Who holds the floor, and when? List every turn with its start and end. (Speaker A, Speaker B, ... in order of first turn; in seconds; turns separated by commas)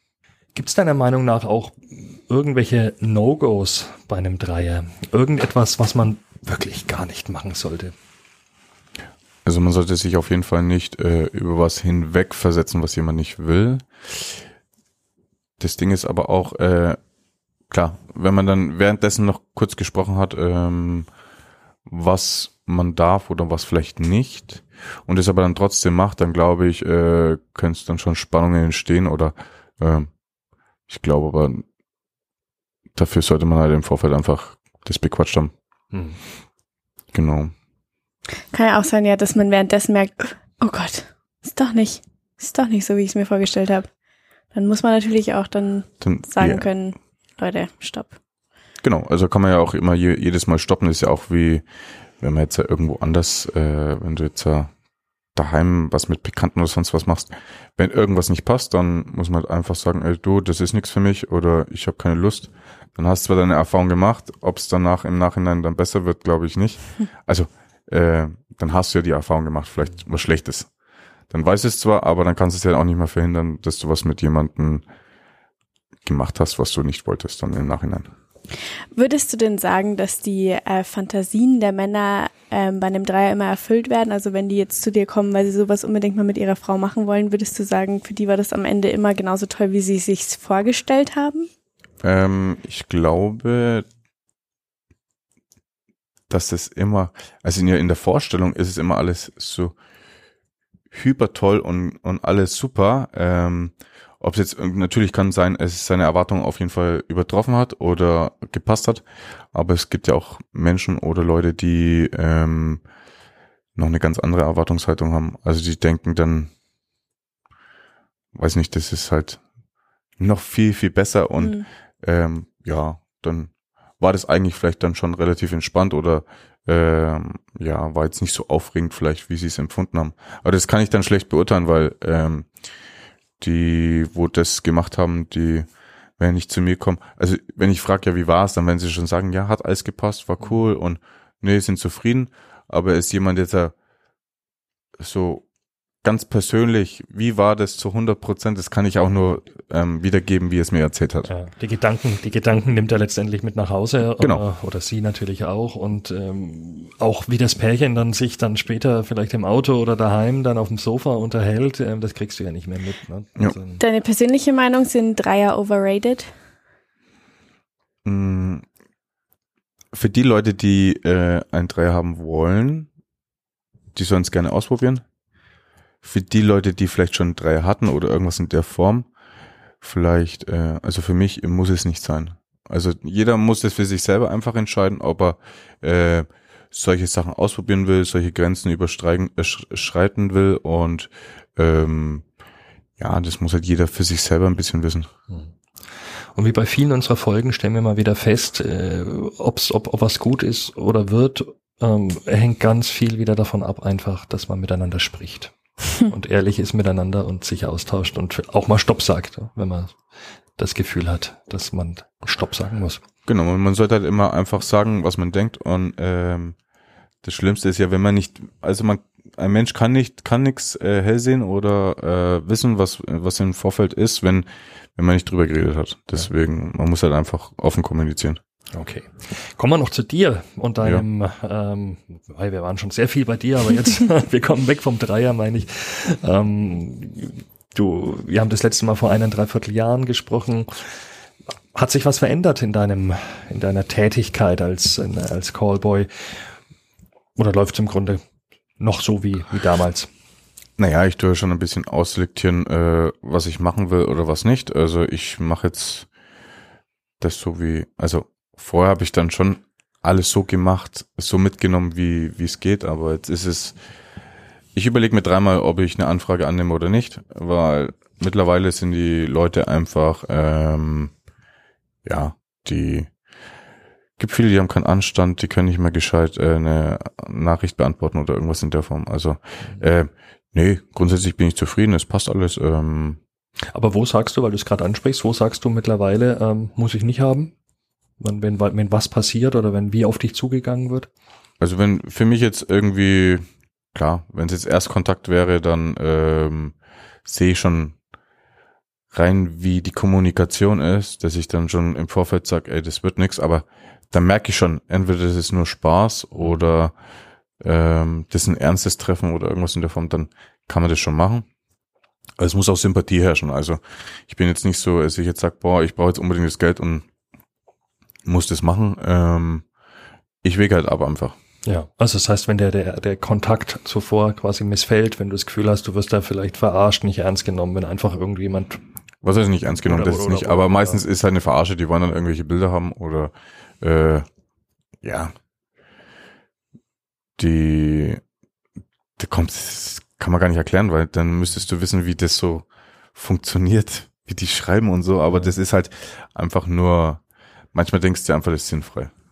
Speaker A: 0.6-7.9, Speaker B: 9.4-14.3, Speaker B: 15.6-17.0, Speaker B: 17.7-21.1, Speaker B: 21.9-30.1, Speaker B: 30.9-31.6, Speaker B: 33.0-35.5, Speaker A: 35.9-36.2, Speaker B: 37.1-37.5, Speaker C: 38.5-43.9, Speaker C: 44.5-48.2, Speaker B: 46.0-46.6, Speaker B: 48.8-51.6, Speaker B: 52.2-54.7, Speaker B: 55.4-70.7, Speaker B: 71.3-74.8, Speaker B: 76.0-78.1, Speaker C: 78.9-91.5, Speaker B: 92.0-93.8, Speaker B: 96.3-99.7, Speaker B: 100.9-112.8, Speaker B: 113.8-116.5, Speaker B: 118.3-119.4, Speaker B: 120.2-132.5, Speaker C: 121.4-121.7, Speaker B: 133.4-135.7, Speaker B: 136.2-143.7, Speaker B: 145.0-145.4, Speaker B: 146.0-151.3, Speaker A: 151.3-163.8, Speaker C: 163.8-166.3, Speaker B: 168.1-168.7, Speaker B: 169.9-172.9, Speaker B: 173.9-175.0, Speaker B: 176.0-179.1, Speaker B: 179.8-192.2, Speaker B: 193.0-195.1, Speaker A: 196.3-213.0, Speaker B: 213.3-216.6, Speaker B: 217.2-228.4, Speaker A: 228.7-241.0, Speaker A: 241.7-246.5, Speaker A: 247.4-248.2, Speaker A: 248.8-250.1, Speaker B: 250.8-256.1, Speaker B: 257.2-263.8, Speaker B: 264.8-271.1, Speaker B: 272.1-273.1, Speaker B: 274.2-283.2, Speaker A: 283.7-287.5, Speaker A: 288.2-291.1, Speaker B: 291.6-296.8, Speaker B: 297.3-297.9, Speaker B: 299.1-306.9, Speaker A: 306.4-306.7, Speaker B: 307.6-311.4, Speaker B: 312.4-317.1, Speaker B: 318.2-319.6, Speaker B: 320.4-321.4, Speaker A: 321.6-328.8, Speaker B: 329.2-334.3, Speaker A: 329.9-331.0, Speaker B: 335.0-335.3, Speaker B: 337.4-338.2, Speaker B: 339.2-347.2, Speaker A: 345.3-345.6, Speaker B: 347.7-349.1